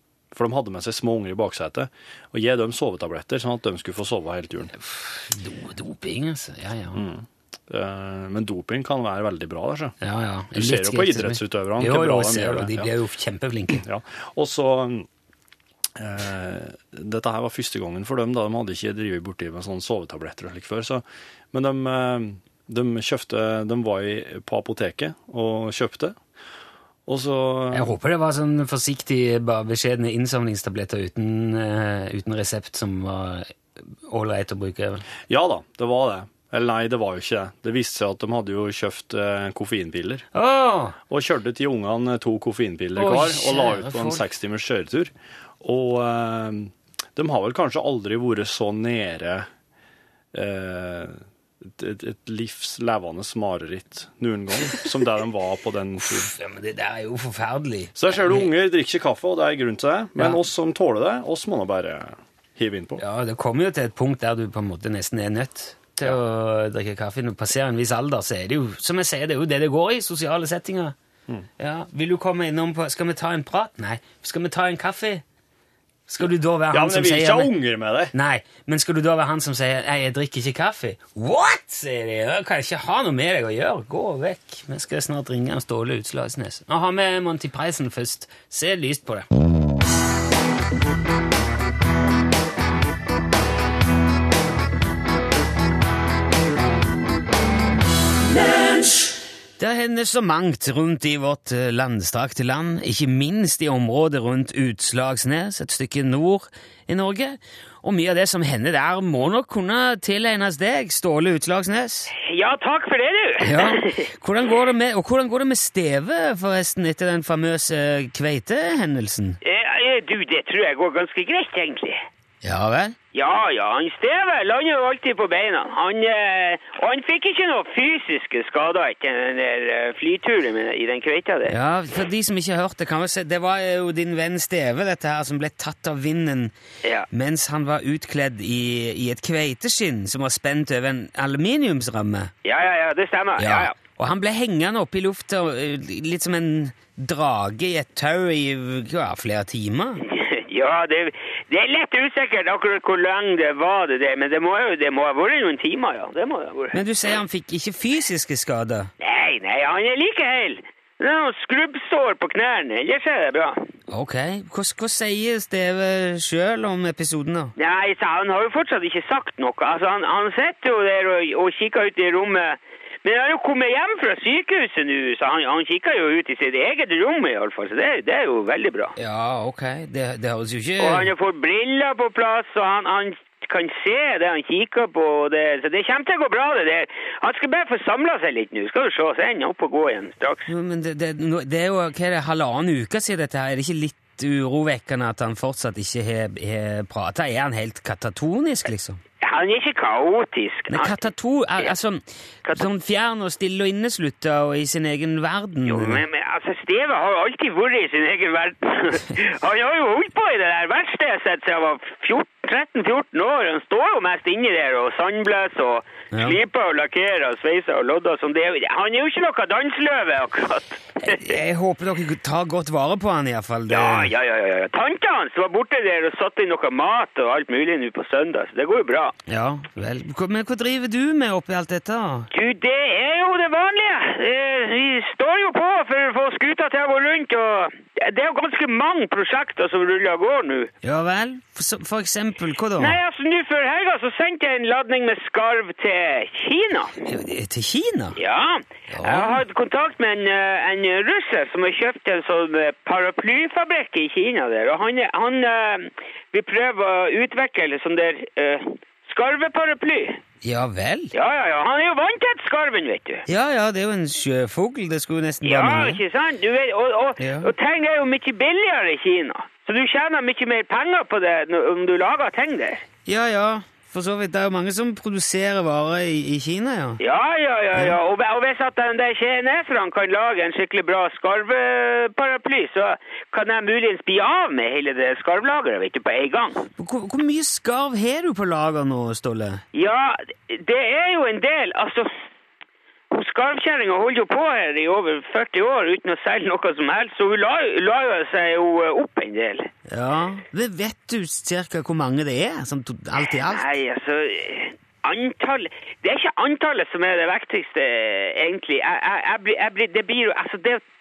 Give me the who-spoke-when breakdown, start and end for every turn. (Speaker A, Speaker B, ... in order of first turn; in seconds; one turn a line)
Speaker A: 0.3-4.7
Speaker B: 4.8-7.0
Speaker A: 6.9-9.9
Speaker B: 10.0-13.8
Speaker A: 10.5-12.9
Speaker A: 13.7-15.1
Speaker A: 15.9-26.2
Speaker A: 27.1-27.9
Speaker B: 27.7-35.0
Speaker A: 35.3-40.2
Speaker B: 40.3-41.0
Speaker A: 41.1-49.5
Speaker B: 43.0-44.2
Speaker A: 50.3-56.3
Speaker B: 56.0-58.5
Speaker A: 58.0-63.0
Speaker B: 60.2-60.4
Speaker B: 63.0-70.9
Speaker B: 71.6-75.2
Speaker B: 76.1-77.5
Speaker A: 76.2-78.1
Speaker B: 78.1-89.3
Speaker B: 99.6-112.1
Speaker C: 112.2-114.1
Speaker B: 113.4-119.4
Speaker C: 119.4-122.0
Speaker B: 122.4-123.0
Speaker C: 123.1-131.5
Speaker B: 131.5-136.5
Speaker B: 137.1-142.3
Speaker C: 142.4-143.8
Speaker B: 143.4-150.0
Speaker C: 150.0-156.8
Speaker B: 156.7-158.9
Speaker C: 159.0-163.6
Speaker B: 163.9-167.5
Speaker C: 167.6-178.9
Speaker B: 178.9-181.1
Speaker C: 180.8-190.5
Speaker B: 190.5-199.0
Speaker C: 199.2-200.9
Speaker B: 200.7-206.0
Speaker C: 205.7-221.3
Speaker B: 216.1-216.4
Speaker B: 221.0-224.1
Speaker C: 223.7-229.1
Speaker B: 229.3-232.3
Speaker C: 232.3-240.7
Speaker B: 240.8-243.0
Speaker C: 242.8-246.9
Speaker B: 247.0-248.2
Speaker C: 248.2-260.2
Speaker B: 248.9-249.4
Speaker B: 260.4-261.1
Speaker C: 261.1-263.2
Speaker B: 263.3-266.0
Speaker C: 265.4-272.8
Speaker B: 267.2-267.5
Speaker B: 273.1-277.0
Speaker C: 277.0-286.7
Speaker B: 286.8-289.6
Speaker C: 289.7-292.1
Speaker C: 293.1-299.7
Speaker B: 299.9-303.6
Speaker C: 303.2-310.8